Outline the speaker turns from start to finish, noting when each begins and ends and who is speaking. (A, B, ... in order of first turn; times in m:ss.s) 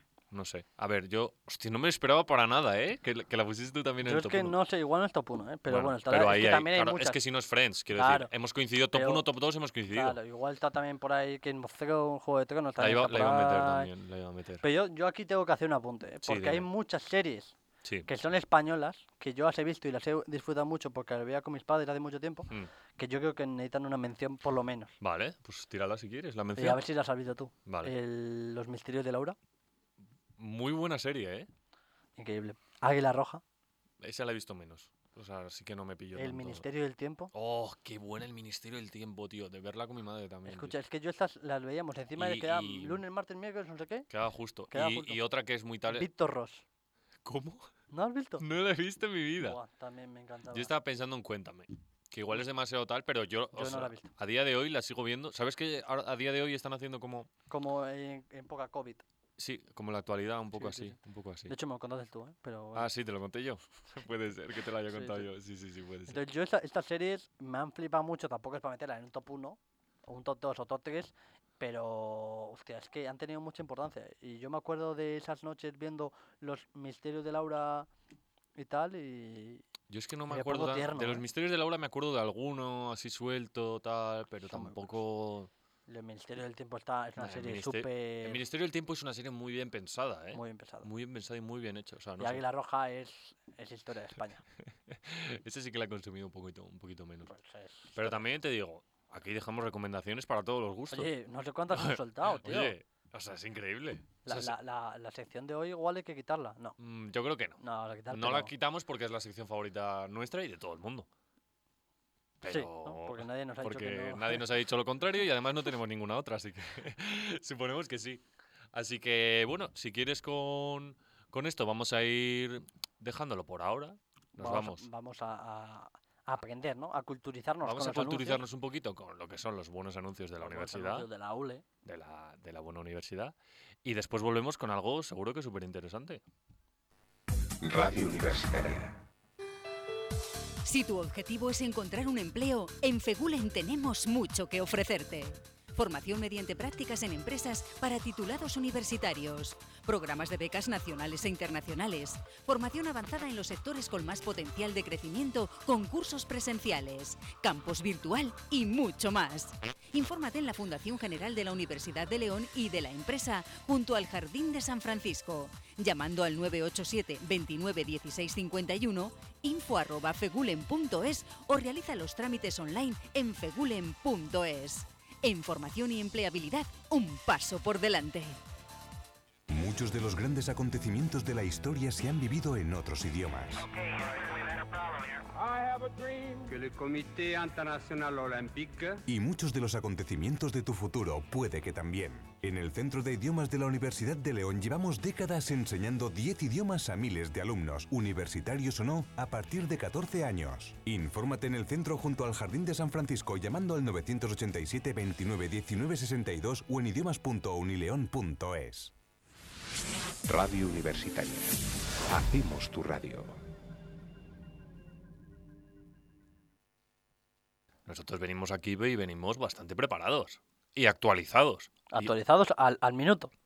0:00.3-0:04.6 A
0:04.0-0:07.2 B
0:05.7-0:10.2 A
0:08.0-0:08.3 B
0:08.9-0:09.2 B
0:09.9-0:13.9 B
0:12.8-0:14.6 A
0:14.6-0:17.6 B
0:16.2-0:16.7 A
0:18.1-0:25.0 B
0:25.0-0:26.8 A
0:26.6-0:29.4 B
0:27.7-0:27.9 A
0:30.4-0:31.5 A
0:32.2-0:33.4 B
0:34.0-0:36.6 A
0:36.2-0:37.3 B
0:37.3-0:40.8 A
0:40.5-0:44.1 B
0:42.2-0:43.0 A
0:44.1-0:46.1 A
0:44.7-0:45.2 B
0:45.9-0:46.6 B
0:47.2-0:47.7 A
0:47.9-0:48.4 B
0:48.4-0:49.6 A
0:49.4-0:50.7 B
0:50.5-0:57.3 A
0:53.5-0:54.1 B
0:57.5-0:59.0 B
0:59.4-1:01.6 A
1:00.6-1:01.0 B
1:01.5-1:02.9 B
1:02.8-1:06.2 A
1:04.9-1:05.3 B
1:06.1-1:17.9 B
1:18.6-1:19.6 B
1:19.9-1:25.5 A
1:20.3-1:21.2 B
1:24.5-1:24.9 B
1:25.9-1:28.4 B
1:27.2-1:32.4 A
1:30.3-1:30.9 B
1:32.2-1:34.4 B
1:34.9-1:37.3 A
1:37.3-1:38.2 B
1:38.0-1:41.1 A
1:40.9-1:42.8 B
1:41.7-1:44.5 A
1:44.2-1:46.8 B
1:46.8-1:47.6 A
1:47.6-1:48.5 B
1:48.1-1:51.1 A
1:52.4-2:04.8 A
1:52.4-1:54.4 B
2:04.4-2:08.4 B
2:07.6-2:11.1 A
2:10.4-2:11.6 B
2:11.8-2:16.2 A
2:17.6-2:19.0 C
2:20.6-2:58.4 D
2:59.5-3:03.7 E
3:03.8-3:09.0 F
3:09.1-3:28.9 E
3:30.3-3:33.4 C
3:37.9-3:42.1 A
3:41.9-3:43.3 B